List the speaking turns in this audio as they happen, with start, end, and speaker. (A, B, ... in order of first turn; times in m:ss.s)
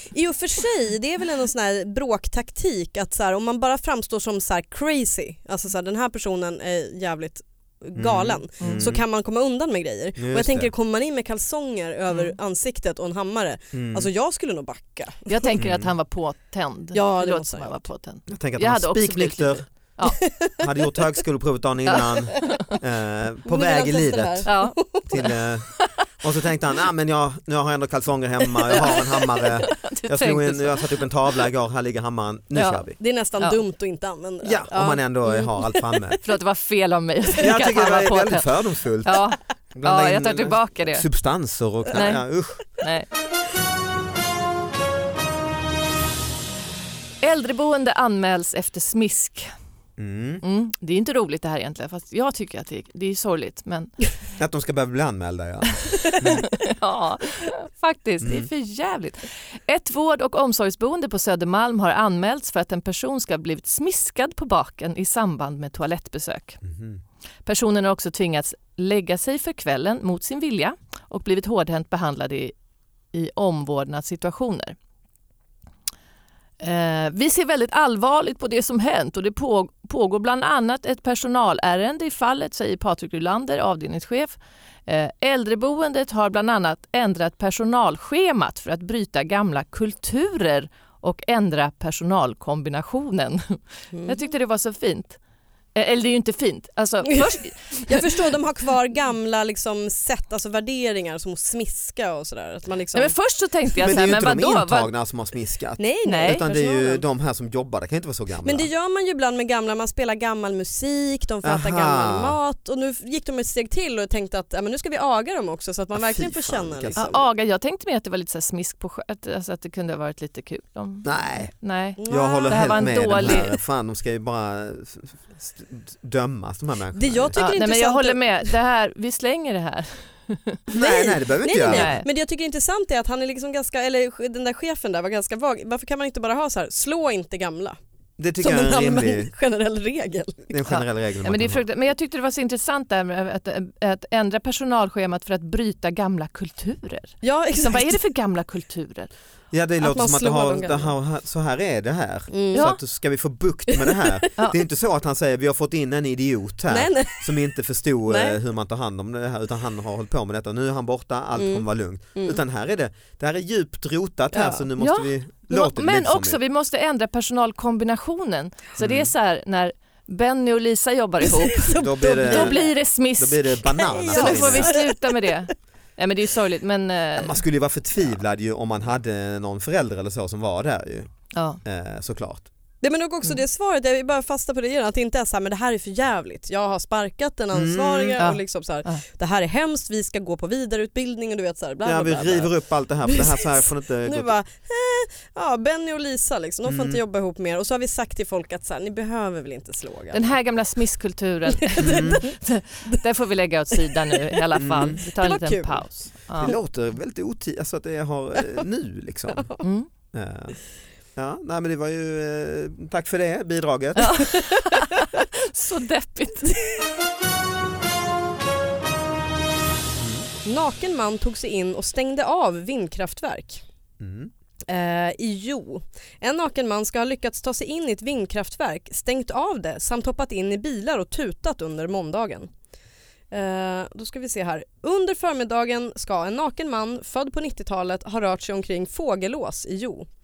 0:00.1-0:15.5 A
0:08.0-0:09.0 B
0:08.6-0:08.8 C
0:10.2-0:10.7 B
0:13.7-0:14.1 B
0:15.3-0:20.2 C
0:15.6-0:15.9 B
0:16.9-0:17.8 A
0:18.3-0:19.6 B
0:20.1-0:21.0 A
0:20.6-0:24.5 B
0:21.9-0:22.6 C
0:23.4-0:25.3 A
0:24.4-0:24.8 C
0:25.1-0:33.0 B
0:28.7-0:29.1 A
0:29.6-0:30.8 C
0:32.5-0:32.9 C
0:33.0-0:36.2 A
0:34.4-0:36.2 B
0:36.2-0:38.5 C
0:37.4-0:42.7 B
0:39.0-0:41.0 C
0:41.9-0:43.1 C
0:47.2-0:49.5 C
0:50.0-0:50.4 B
0:50.4-0:53.9 C
0:54.4-0:56.5 B
0:56.1-1:06.6 C
0:58.2-0:58.5 B
1:06.6-1:07.0 B
1:07.4-1:12.5 C
1:13.1-1:14.8 C
1:16.6-1:35.2 C
1:35.7-1:38.2 C
1:37.8-1:43.1 A
1:42.9-1:44.9 C
1:43.8-1:48.7 B
1:45.8-1:47.0 A
1:46.0-1:46.4 C
1:48.4-1:57.2 A
1:51.4-1:52.4 B
1:55.9-1:57.1 B
1:57.0-2:03.5 C
2:01.0-2:01.5 B
2:02.0-2:03.5 A
2:02.1-2:07.4 B
2:06.9-2:08.5 A
2:07.4-2:10.6 C
2:10.7-2:11.9 B
2:10.8-2:17.8 A
2:11.6-2:12.1 C
2:18.2-2:19.3 B
2:18.4-2:20.6 A
2:20.5-2:21.6 B
2:20.7-2:29.1 C
2:27.2-2:28.0 A
2:29.5-2:46.4 B
2:29.8-2:30.9 A
2:32.3-2:32.7 A
2:32.5-2:32.8 C
2:33.7-2:34.3 A
2:36.7-2:37.4 A
2:38.1-2:38.4 A
2:41.4-2:41.6 A
2:44.3-2:44.7 A
2:44.8-2:57.4 C
2:48.8-2:49.1 B
2:51.2-2:52.7 A
2:51.8-2:52.6 B
2:53.2-2:54.7 B
2:53.7-2:55.3 A
2:57.2-3:01.1 B
3:01.3-3:01.6 C
3:01.6-3:02.5 B
3:02.8-3:12.5 A
3:07.5-3:08.2 B
3:08.2-3:09.0 C
3:11.8-3:14.3 B
3:13.0-3:20.3 A
3:16.6-3:17.0 B
3:20.1-3:26.5 C
3:21.6-3:22.3 A
3:21.8-3:22.2 B
3:23.8-3:26.6 A
3:24.6-3:25.0 B
3:26.4-3:29.5 B
3:29.6-3:29.9 C
3:30.1-3:30.6 B
3:31.2-3:34.3 B
3:34.0-3:36.6 C
3:40.0-3:40.3 B
3:40.4-3:43.6 A
3:44.0-3:44.3 B
3:44.7-3:52.5 A
3:53.3-4:00.1 A